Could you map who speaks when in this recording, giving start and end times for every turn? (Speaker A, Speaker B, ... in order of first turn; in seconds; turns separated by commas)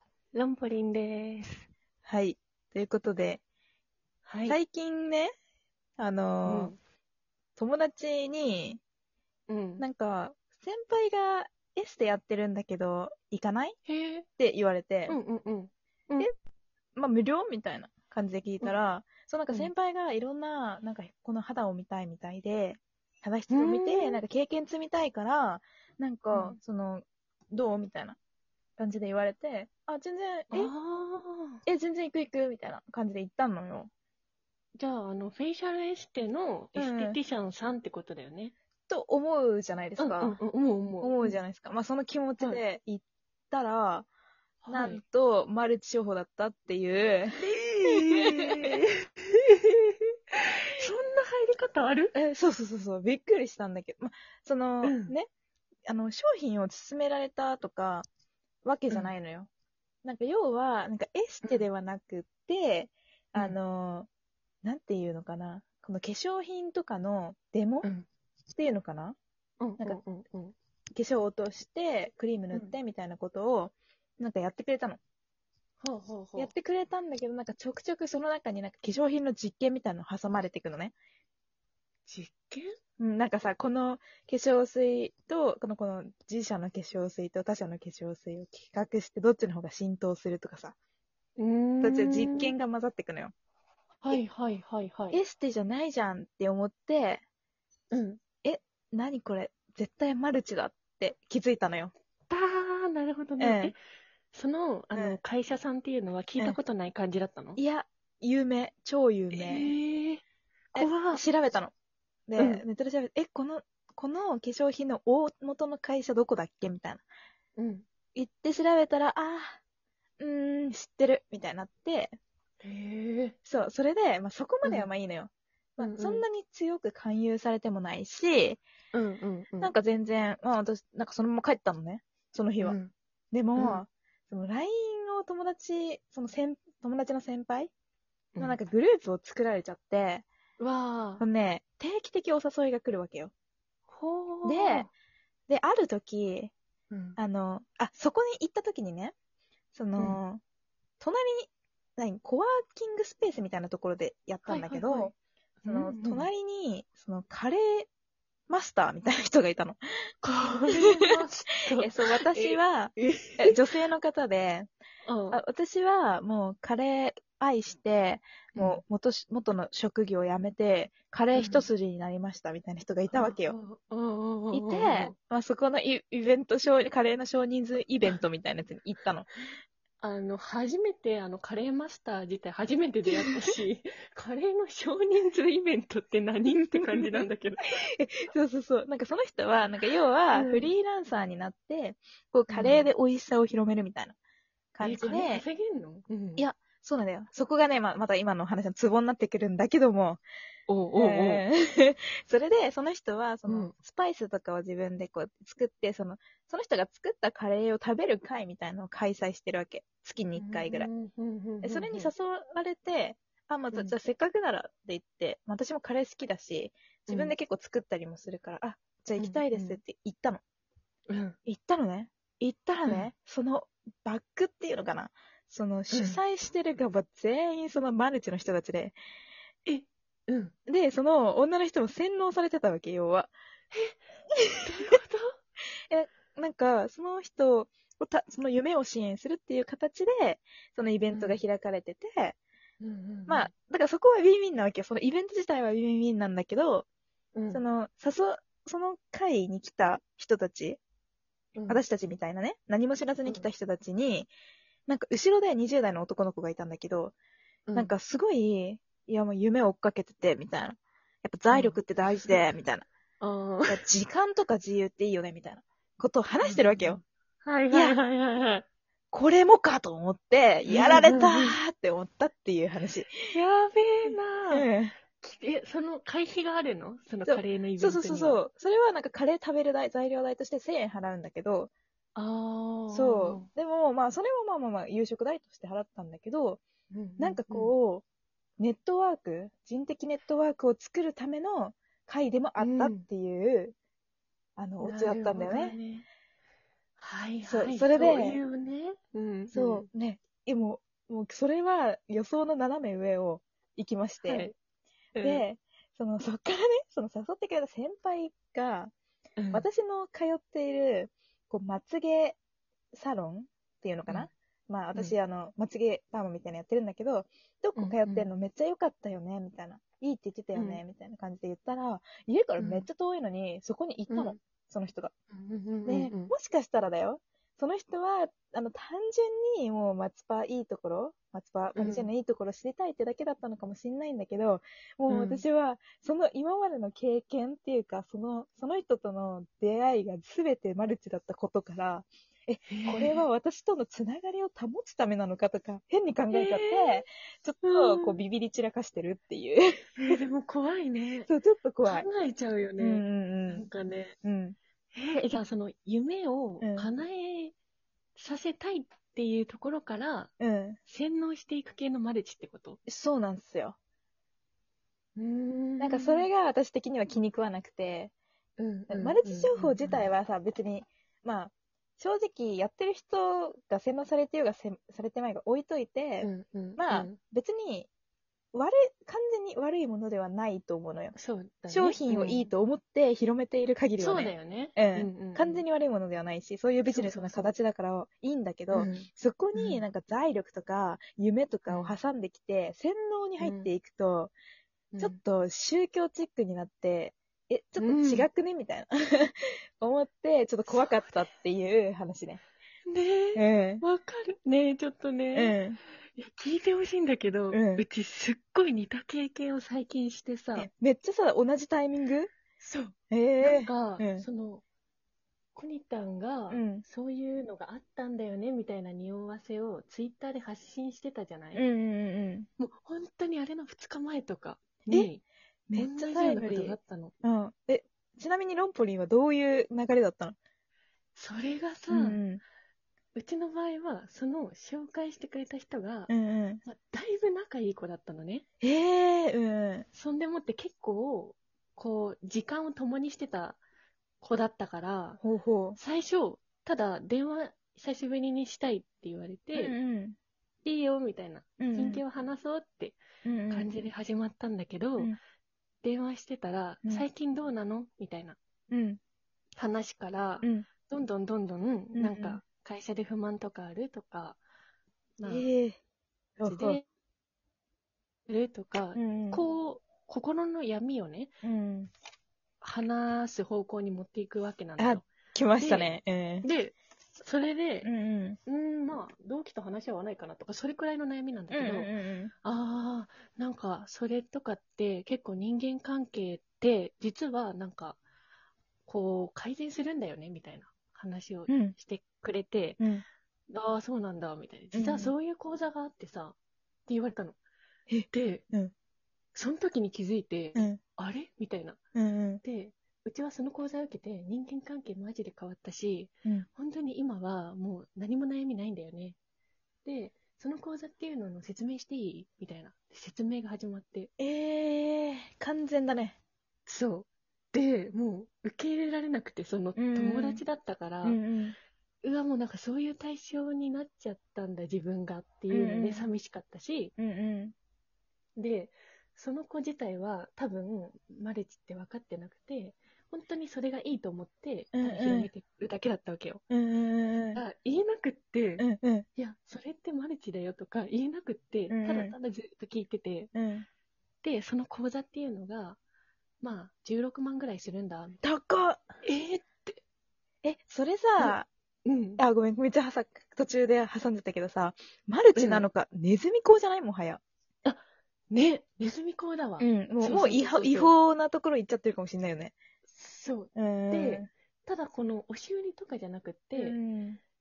Speaker A: 0.3-1.7, Speaker B: 2.0-3.4, Speaker A: 4.2-4.6, Speaker B: 4.5-5.3, Speaker B: 6.0-6.7, Speaker A: 6.5-6.8, Speaker B: 7.6-8.8, Speaker A: 9.5-9.8, Speaker B: 9.8-13.8, Speaker A: 13.8-14.2, Speaker B: 14.4-15.2, Speaker A: 15.1-16.3, Speaker B: 16.9-28.2, Speaker A: 23.5-24.2, Speaker A: 26.3-26.6, Speaker B: 28.8-30.7, Speaker A: 30.5-31.6, Speaker B: 31.6-33.9, Speaker A: 34.8-38.5, Speaker B: 36.8-37.2, Speaker B: 38.9-40.4, Speaker A: 40.0-41.4, Speaker B: 41.0-44.1, Speaker A: 44.6-45.0, Speaker B: 44.7-48.8, Speaker A: 47.4-50.1, Speaker A: 50.8-52.1, Speaker B: 52.1-55.3, Speaker A: 54.8-55.1, Speaker B: 55.9-58.0, Speaker B: 58.6-59.5, Speaker B: 60.0-64.1, Speaker B: 64.6-67.9, Speaker B: 68.5-69.2, Speaker A: 69.6-70.5, Speaker B: 70.9-75.0, Speaker A: 75.8-76.5, Speaker B: 76.3-80.9, Speaker A: 82.0-82.7, Speaker B: 83.0-90.7, Speaker A: 91.4-92.5, Speaker B: 91.8-93.3, Speaker A: 94.0-95.2, Speaker B: 95.1-97.2, Speaker A: 97.9-98.2, Speaker B: 98.4-101.9, Speaker A: 102.3-103.8, Speaker B: 103.4-103.7, Speaker A: 104.3-107.6, Speaker B: 104.9-105.2, Speaker B: 107.6-109.7, Speaker A: 109.3-110.2, Speaker A: 110.7-111.2, Speaker B: 110.7-111.7, Speaker B: 112.3-117.0, Speaker A: 112.4-112.6, Speaker A: 117.5-117.8, Speaker B: 118.1-119.6, Speaker B: 120.2-122.2, Speaker A: 122.6-123.3, Speaker B: 123.5-128.6, Speaker A: 124.6-124.9, Speaker A: 125.8-126.2, Speaker A: 128.9-129.7, Speaker B: 129.6-132.8, Speaker A: 132.6-132.9, Speaker B: 133.3-137.7, Speaker A: 133.6-133.8, Speaker B: 138.4-140.2, Speaker A: 140.6-141.2, Speaker B: 141.2-143.3, Speaker A: 143.9-144.9, Speaker B: 144.4-144.9, Speaker B: 145.5-146.5, Speaker A: 146.9-147.2, Speaker B: 147.2-149.1, Speaker B: 149.7-150.4, Speaker B: 151.0-155.1, Speaker A: 154.4-156.3, Speaker B: 155.7-157.9, Speaker B: 158.5-159.8, Speaker A: 160.2-163.6, Speaker B: 160.7-161.1, Speaker B: 161.8-164.7, Speaker A: 165.1-165.4, Speaker B: 165.3-173.6, Speaker A: 168.6-168.8, Speaker A: 171.3-171.7, Speaker A: 173.1-175.1, Speaker B: 174.5-179.3, Speaker A: 180.0-187.8, Speaker B: 186.5-187.3, Speaker B: 187.9-194.2, Speaker A: 190.3-190.7, Speaker A: 192.5-192.9, Speaker B: 194.7-195.4, Speaker A: 194.8-196.4, Speaker B: 196.4-200.2, Speaker A: 200.7-201.4, Speaker B: 200.9-210.9, Speaker A: 203.5-203.7, Speaker A: 210.3-212.1, Speaker B: 211.6-220.4, Speaker A: 217.1-217.3, Speaker A: 219.2-219.8, Speaker A: 221.1-221.4, Speaker B: 221.4-228.9, Speaker A: 225.9-226.2, Speaker A: 229.7-230.5, Speaker B: 230.7-233.3, Speaker A: 233.7-234.0, Speaker B: 234.4-234.9, Speaker A: 234.6-235.3, Speaker B: 235.9-242.4, Speaker A: 241.1-241.4, Speaker A: 242.8-243.5, Speaker B: 243.3-246.8, Speaker A: 247.3-247.6, Speaker B: 247.5-250.8, Speaker A: 251.6-251.8, Speaker B: 251.7-254.3, Speaker B: 254.9-257.1, Speaker A: 257.7-257.9, Speaker B: 257.7-262.9, Speaker A: 261.5-262.4, Speaker A: 263.2-263.8, Speaker B: 263.7-267.0, Speaker A: 266.4-268.6, Speaker B: 267.7-268.0, Speaker B: 269.1-273.3, Speaker A: 270.7-271.6, Speaker A: 273.3-274.7, Speaker B: 274.0-274.9, Speaker A: 275.2-278.4, Speaker B: 277.2-281.7, Speaker A: 282.1-283.5, Speaker B: 282.9-286.6, Speaker A: 286.9-287.7, Speaker B: 287.2-288.0, Speaker B: 288.6-293.7, Speaker A: 292.6-293.1, Speaker B: 294.6-295.8, Speaker A: 294.8-296.1, Speaker A: 297.0-299.9, Speaker B: 297.4-298.4, Speaker B: 299.5-304.5, Speaker A: 304.2-304.5, Speaker A: 305.1-305.4, Speaker B: 305.2-308.9, Speaker A: 309.4-309.6, Speaker B: 309.5-312.4, Speaker B: 312.9-325.1, Speaker A: 317.8-318.3, Speaker A: 320.5-320.8, Speaker A: 322.6-322.9, Speaker A: 324.1-324.4, Speaker A: 325.3-326.3, Speaker B: 325.9-350.2, Speaker A: 331.8-332.1, Speaker A: 335.1-335.4, Speaker A: 342.7-343.2, Speaker A: 346.3-347.0, Speaker A: 347.6-348.2, Speaker A: 350.0-351.3, Speaker B: 351.2-352.1, Speaker A: 351.8-354.1, Speaker B: 352.8-353.7, Speaker B: 354.2-354.6, Speaker A: 354.9-357.5, Speaker B: 356.6-356.9, Speaker A: 358.1-360.3, Speaker B: 360.4-360.8, Speaker A: 360.9-362.8, Speaker B: 362.9-363.8, Speaker A: 365.1-366.3, Speaker B: 365.8-368.1, Speaker A: 368.6-370.1, Speaker B: 368.9-377.9, Speaker A: 376.2-377.2, Speaker B: 378.5-381.1, Speaker A: 381.1-382.5, Speaker B: 381.7-394.3, Speaker A: 384.0-385.6, Speaker A: 386.9-387.5, Speaker A: 388.7-389.8, Speaker A: 391.7-391.9, Speaker A: 393.4-393.7, Speaker A: 394.9-395.2, Speaker B: 395.0-402.4, Speaker A: 397.8-398.3, Speaker A: 400.7-401.3, Speaker A: 402.9-405.6, Speaker B: 403.4-403.8, Speaker B: 405.3-405.8, Speaker A: 406.1-410.7, Speaker B: 407.5-407.8, Speaker B: 410.5-412.3, Speaker A: 412.6-414.6, Speaker B: 413.1-414.2, Speaker A: 415.5-421.6, Speaker B: 416.5-416.8, Speaker B: 421.5-422.5, Speaker A: 422.6-425.2, Speaker B: 425.7-430.4, Speaker A: 425.8-427.1, Speaker A: 431.1-432.2, Speaker B: 431.9-432.4, Speaker A: 433.1-436.1, Speaker B: 436.1-436.6, Speaker A: 436.6-438.4, Speaker B: 438.6-439.9, Speaker A: 439.9-443.6, Speaker A: 444.2-445.2, Speaker B: 445.2-445.8, Speaker A: 445.8-449.7, Speaker B: 449.5-450.2, Speaker A: 450.6-453.0, Speaker B: 451.6-452.0, Speaker B: 453.2-453.7, Speaker A: 453.5-455.1, Speaker A: 455.8-458.4, Speaker B: 458.7-459.0, Speaker A: 459.6-464.4, Speaker B: 460.4-460.7, Speaker B: 461.9-462.4, Speaker A: 465.2-465.5, Speaker B: 465.2-465.8, Speaker B: 466.4-466.8, Speaker A: 466.4-466.8, Speaker A: 468.3-471.3, Speaker B: 468.9-469.4, Speaker B: 471.4-471.9, Speaker A: 472.6-475.1, Speaker B: 474.8-476.5, Speaker A: 475.6-477.9, Speaker B: 477.8-478.4, Speaker A: 478.4-481.9, Speaker B: 481.5-482.3, Speaker A: 482.4-488.0, Speaker A: 488.9-492.8, Speaker B: 491.5-491.7, Speaker B: 492.8-493.0, Speaker A: 493.5-496.4, Speaker B: 494.7-495.1, Speaker A: 496.9-497.4, Speaker B: 497.9-498.7, Speaker A: 498.1-498.4, Speaker A: 499.3-501.8, Speaker B: 500.5-500.8, Speaker B: 501.9-502.4, Speaker A: 502.4-509.1, Speaker A: 509.8-514.1, Speaker B: 514.2-516.2, Speaker A: 516.7-521.2, Speaker B: 519.8-520.4, Speaker B: 521.0-521.5, Speaker A: 522.0-526.9, Speaker B: 525.5-526.1, Speaker B: 527.0-527.5, Speaker A: 528.4-536.4, Speaker B: 534.7-535.3, Speaker B: 536.5-537.4, Speaker A: 537.3-543.3, Speaker B: 538.6-539.1, Speaker B: 541.7-542.1, Speaker B: 543.3-543.7, Speaker A: 544.2-545.8, Speaker A: 546.4-548.2, Speaker B: 548.2-548.9, Speaker A: 549.0-549.8, Speaker B: 550.4-551.5, Speaker A: 551.2-552.2, Speaker B: 552.2-557.2, Speaker A: 555.4-555.7, Speaker A: 557.6-560.9, Speaker B: 559.6-562.5, Speaker A: 562.9-566.8, Speaker B: 563.5-564.3, Speaker B: 566.5-567.2